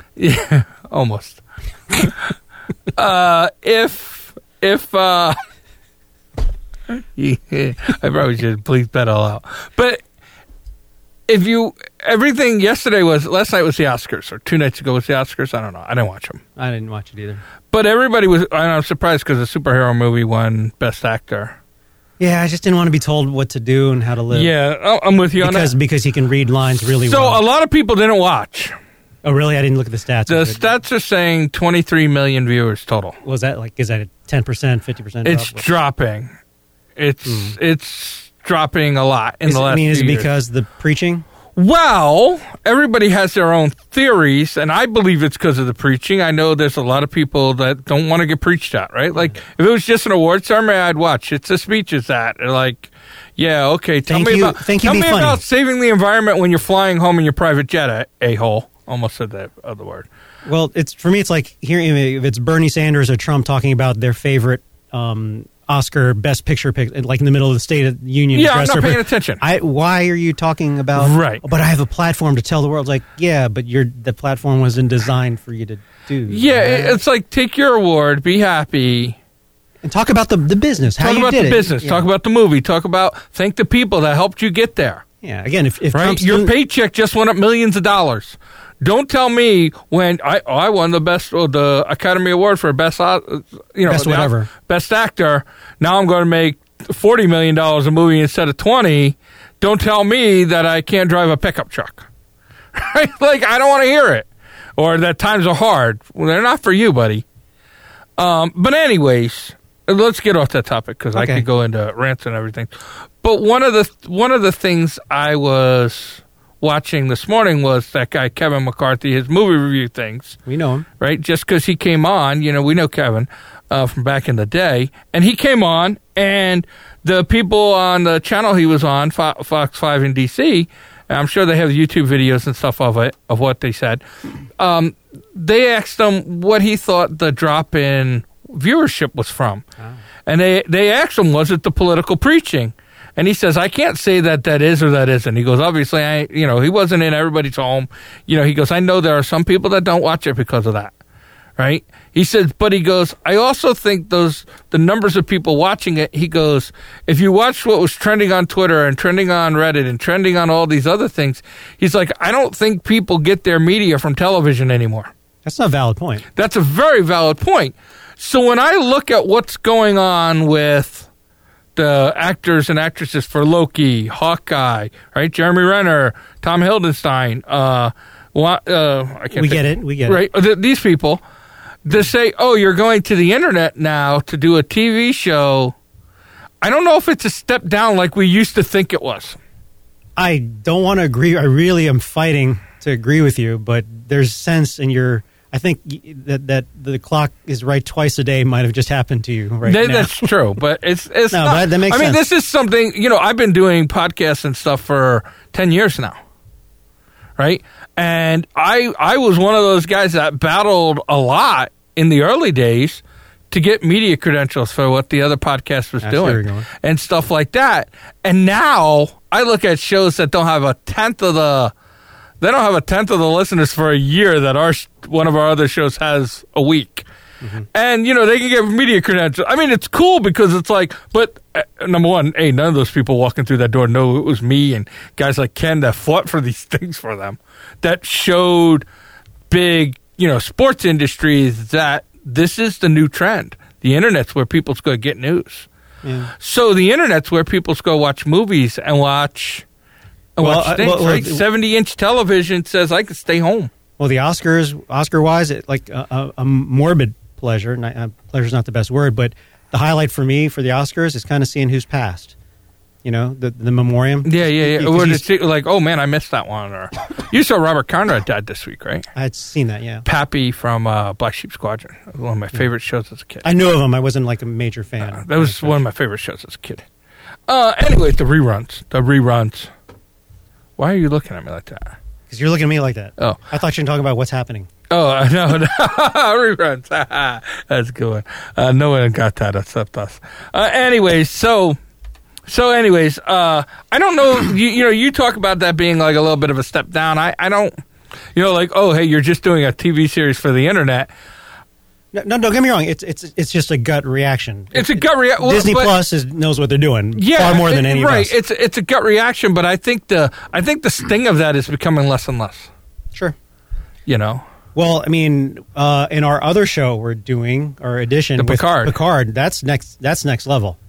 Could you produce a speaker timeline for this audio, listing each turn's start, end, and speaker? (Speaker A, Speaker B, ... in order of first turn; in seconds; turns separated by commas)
Speaker A: 0.2-2.3, Speaker A: 2.9-5.4, Speaker A: 6.9-10.0, Speaker A: 11.3-16.4, Speaker B: 16.6-17.4, Speaker A: 17.7-21.6, Speaker B: 22.2-24.5, Speaker A: 24.3-25.7, Speaker B: 25.4-27.4, Speaker A: 27.0-28.7, Speaker B: 29.2-30.6, Speaker A: 30.3-33.2, Speaker B: 33.2-35.6, Speaker A: 35.2-36.3, Speaker A: 37.0-40.3, Speaker B: 37.2-37.5, Speaker B: 39.5-41.2, Speaker A: 41.5-60.1, Speaker B: 54.1-55.4, Speaker B: 60.4-77.0, Speaker A: 68.3-69.4, Speaker A: 71.0-71.4, Speaker A: 76.3-79.2, Speaker B: 79.8-82.0, Speaker A: 81.0-85.0, Speaker B: 85.2-86.5, Speaker A: 85.9-102.1, Speaker B: 93.9-94.5, Speaker A: 102.8-107.2, Speaker A: 108.2-112.7, Speaker B: 111.1-111.4, Speaker A: 113.2-120.4, Speaker B: 120.5-120.9, Speaker A: 121.0-134.0, Speaker A: 134.6-139.6, Speaker A: 140.3-150.9, Speaker A: 151.6-165.1, Speaker B: 165.4-166.2, Speaker A: 166.4-171.1, Speaker A: 171.8-181.2, Speaker B: 179.4-180.2, Speaker A: 181.8-185.8, Speaker A: 186.6-189.4, Speaker B: 190.2-200.3, Speaker A: 199.7-206.2, Speaker B: 201.3-202.2, Speaker A: 207.4-221.7, Speaker B: 216.0-216.7, Speaker A: 222.4-227.1, Speaker A: 227.7-238.8, Speaker A: 239.5-245.7, Speaker B: 246.0-246.3, Speaker A: 246.4-249.6, Speaker A: 250.4-253.7, Speaker B: 250.4-251.4, Speaker B: 254.0-262.4, Speaker B: 263.0-265.2, Speaker A: 264.2-269.1, Speaker B: 269.1-270.0, Speaker A: 270.0-273.5, Speaker B: 273.4-275.8, Speaker A: 275.0-276.9, Speaker A: 277.5-279.7, Speaker A: 280.8-281.9, Speaker B: 282.3-284.7, Speaker A: 284.9-291.8, Speaker A: 292.5-297.7, Speaker A: 298.4-301.1, Speaker B: 302.1-308.3, Speaker A: 304.7-305.9, Speaker A: 307.1-312.7, Speaker A: 314.1-314.4, Speaker B: 314.8-320.8, Speaker A: 318.4-319.0